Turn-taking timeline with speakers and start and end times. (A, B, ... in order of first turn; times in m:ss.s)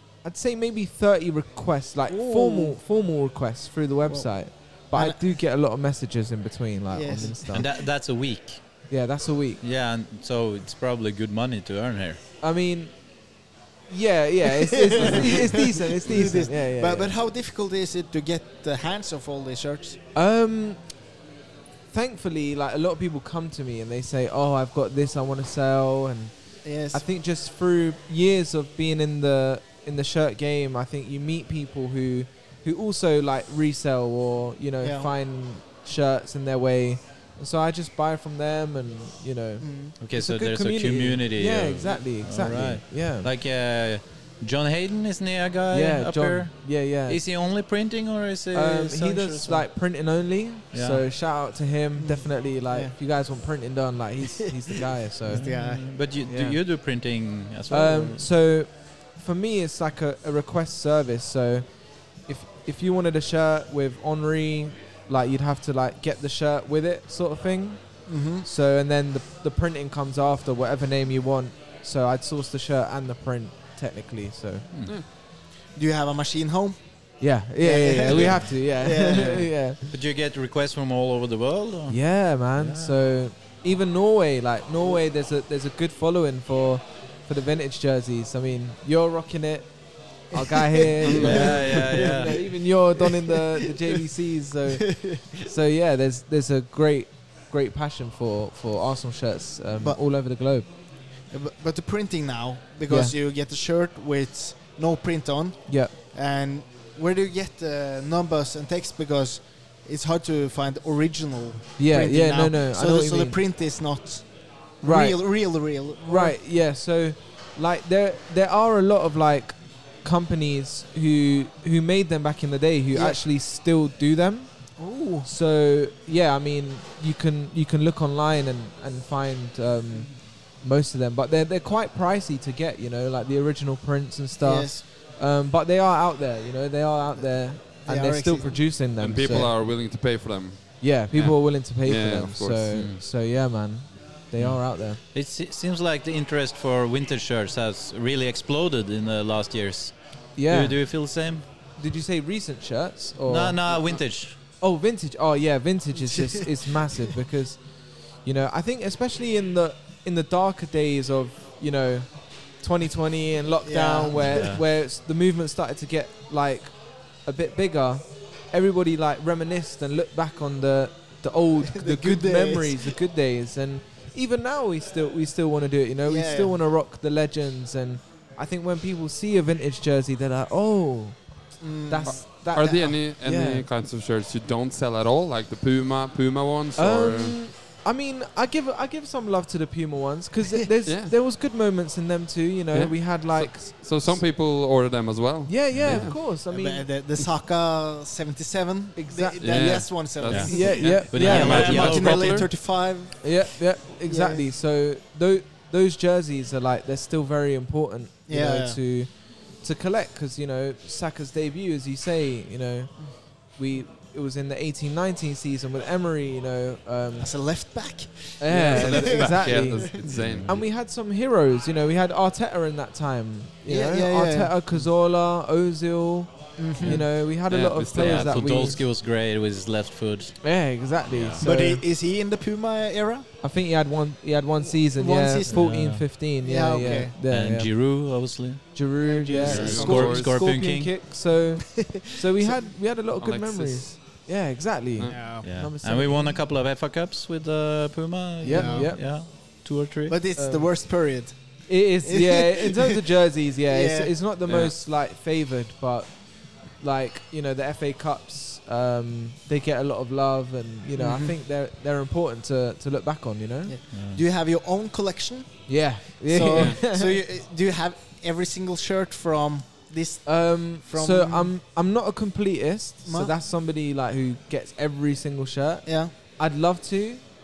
0:00.2-0:07.7 A
0:02.1-0:02.8 B
0:04.9-0:05.2 B
0:06.9-0:07.6 B
0:07.5-0:08.6 C
0:08.9-0:09.6 A
0:09.6-0:12.2 C
0:12.4-0:12.9 A
0:13.9-0:17.1 A
0:14.7-0:20.0 B
0:20.1-0:20.8 A
0:21.9-0:26.3 A
0:26.6-0:27.0 B
0:26.9-0:43.3 A
0:34.8-0:35.1 B
0:39.6-0:39.9 B
0:40.0-0:49.7 C
0:45.7-0:47.2 A
0:48.5-0:55.5 A
0:50.7-0:51.0 C
0:52.0-0:52.9 B
0:55.3-0:58.3 C
0:55.3-0:55.8 B
0:56.2-0:56.6 A
0:57.7-1:14.6 A
1:08.1-1:08.4 B
1:15.7-1:16.8 B
1:17.2-1:19.9 A
1:17.6-1:19.5 B
1:18.1-1:18.4 C
1:19.9-1:23.0 C
1:21.9-1:29.7 A
1:30.3-1:40.6 A
1:30.3-1:33.8 B
1:31.0-1:31.6 D
1:31.2-1:32.4 C
1:34.9-1:35.3 B
1:41.3-1:54.3 B
1:42.9-1:43.1 A
1:45.7-1:45.9 A
1:51.8-1:53.4 A
1:54.8-1:56.4 B
1:54.8-2:19.5 A
2:02.9-2:03.2 B
2:04.8-2:05.3 B
2:14.4-2:14.8 B
2:17.8-2:18.6 B
2:19.0-2:22.7 D
2:20.8-2:25.0 A
2:22.7-2:23.0 C
2:24.4-2:31.4 C
2:30.4-2:30.8 A
2:31.8-2:33.6 A
2:33.2-2:34.4 C
2:34.6-2:37.6 A
2:36.0-2:36.9 B
2:38.2-3:01.2 A
2:43.6-2:44.5 B
2:44.2-2:44.6 C
2:51.6-2:52.9 B
2:56.0-2:56.6 B
3:01.6-3:03.0 B
3:01.8-3:03.6 A
3:02.0-3:07.4 D
3:06.8-3:14.2 A
3:10.8-3:11.1 D
3:12.7-3:16.2 D
3:15.5-3:16.9 A
3:15.7-3:16.1 C
3:16.2-3:24.4 B
3:19.0-3:21.8 A
3:19.4-3:22.5 D
3:20.3-3:22.5 C
3:23.2-3:37.3 A
3:28.3-3:28.8 B
3:37.2-3:40.0 B
3:38.4-3:48.8 A
3:38.5-3:40.6 D
3:40.0-3:40.6 C
3:43.7-3:44.5 B
3:46.6-3:47.0 B
3:46.8-3:48.7 D
3:47.9-3:50.4 C
3:50.4-3:51.8 A
3:51.1-3:51.4 C
3:51.4-3:53.3 B
3:53.4-3:57.7 A
3:54.9-3:55.7 B
3:55.5-3:56.1 C
3:56.4-3:57.1 B
3:57.2-3:58.7 C
3:58.7-4:06.4 A
3:59.0-4:00.1 B
3:59.4-4:00.4 D
3:59.4-4:00.9 C
4:01.8-4:02.6 B
4:03.2-4:03.9 D
4:05.1-4:05.4 B
4:05.4-4:10.2 C
4:08.4-4:09.0 A
4:08.4-4:08.9 B
4:10.1-4:13.0 B
4:10.4-4:10.7 A
4:11.7-4:23.7 A
4:13.7-4:14.1 B
4:21.0-4:21.4 B
4:23.7-4:31.5 B
4:23.9-4:24.2 C
4:25.7-4:27.2 A
4:26.5-4:26.8 D
4:30.2-4:37.2 A
4:33.0-4:33.3 B
4:35.8-4:36.1 B